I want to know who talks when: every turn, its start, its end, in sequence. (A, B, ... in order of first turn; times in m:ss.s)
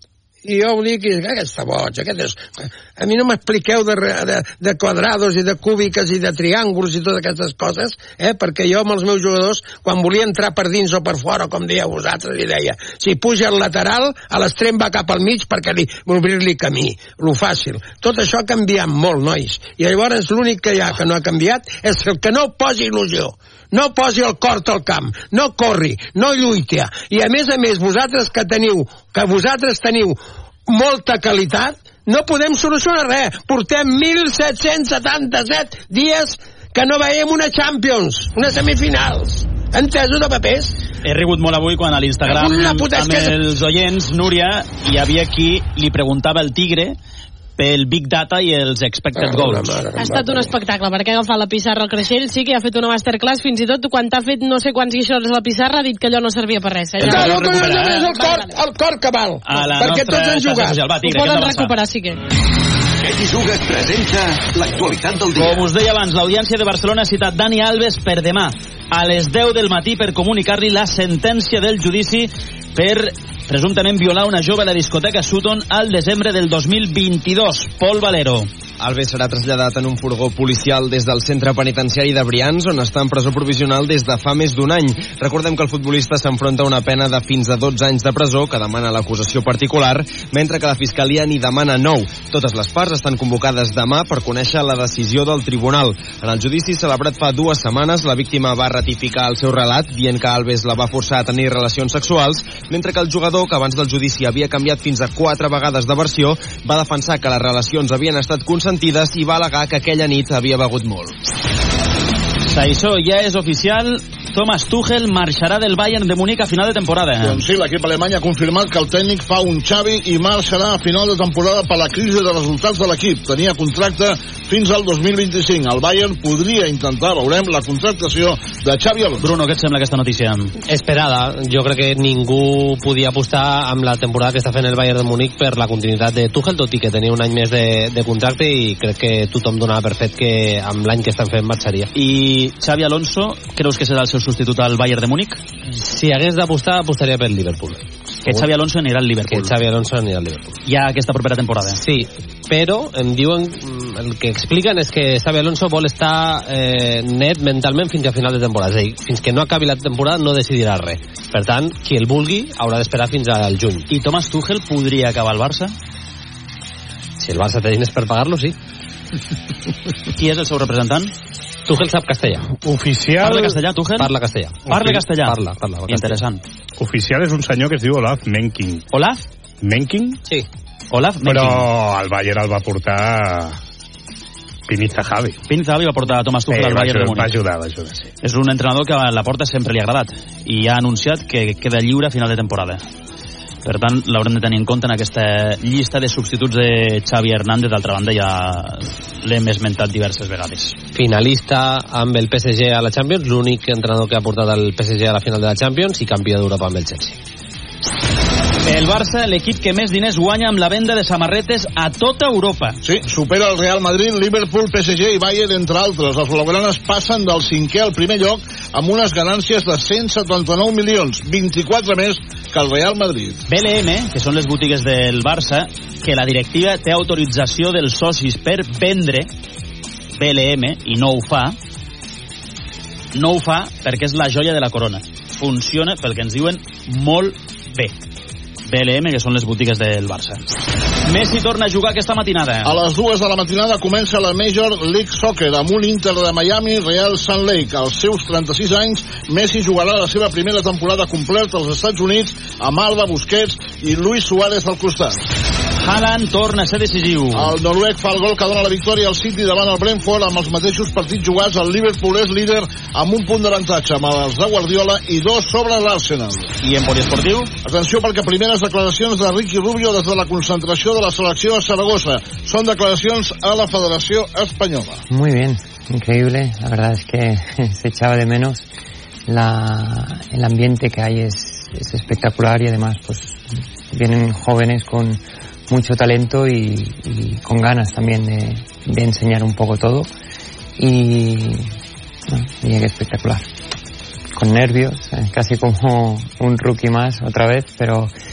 0:00.4-0:40.8 A
0:41.0-0:47.0 B
0:42.3-0:43.4 A
0:47.6-0:49.8 B
0:49.2-0:50.6 A
0:50.0-0:58.5 C
0:57.0-0:58.1 B
0:57.0-1:00.8 A
0:59.5-1:01.8 B
1:01.0-1:02.2 C
1:03.0-1:05.7 D
1:05.4-1:18.5 B
1:18.8-1:51.2 E
1:52.5-1:57.4 B
1:57.2-2:09.3 F
2:09.2-2:10.5 B
2:10.7-2:21.9 G
2:22.0-2:25.4 B
2:25.7-2:28.5 G
2:28.2-2:29.6 B
2:29.3-2:30.6 G
2:30.7-2:31.8 B
2:31.7-2:43.9 G
2:43.9-2:45.7 B
2:47.2-2:48.6 G
2:50.2-2:51.1 B
2:51.7-2:52.5 G
2:52.6-2:53.5 H
2:53.2-2:54.1 B
2:54.0-2:56.2 G
2:54.7-2:56.4 B
2:56.8-2:58.8 H
2:58.9-2:59.2 B
2:59.6-3:00.2 H
3:00.9-3:01.7 B
3:01.2-3:03.6 H
3:04.7-3:05.4 H
3:05.5-3:07.3 B
3:06.5-3:08.1 H
3:08.2-3:12.8 B
3:13.6-3:20.8 B
3:21.0-3:27.2 G
3:28.6-3:32.8 B
3:32.8-3:43.4 F
3:43.5-3:49.3 B
3:50.2-3:51.6 B
3:53.1-3:57.9 B
3:58.7-4:00.4 B
4:01.1-4:02.8 B
4:02.6-4:15.2 F
4:15.8-4:17.6 B
4:17.3-4:26.5 F
4:26.6-4:27.5 B
4:27.6-4:35.0 F
4:35.1-4:38.7 I
4:39.3-4:50.1 I
4:50.8-4:51.7 I
4:52.3-4:53.4 I
4:54.4-4:58.1 I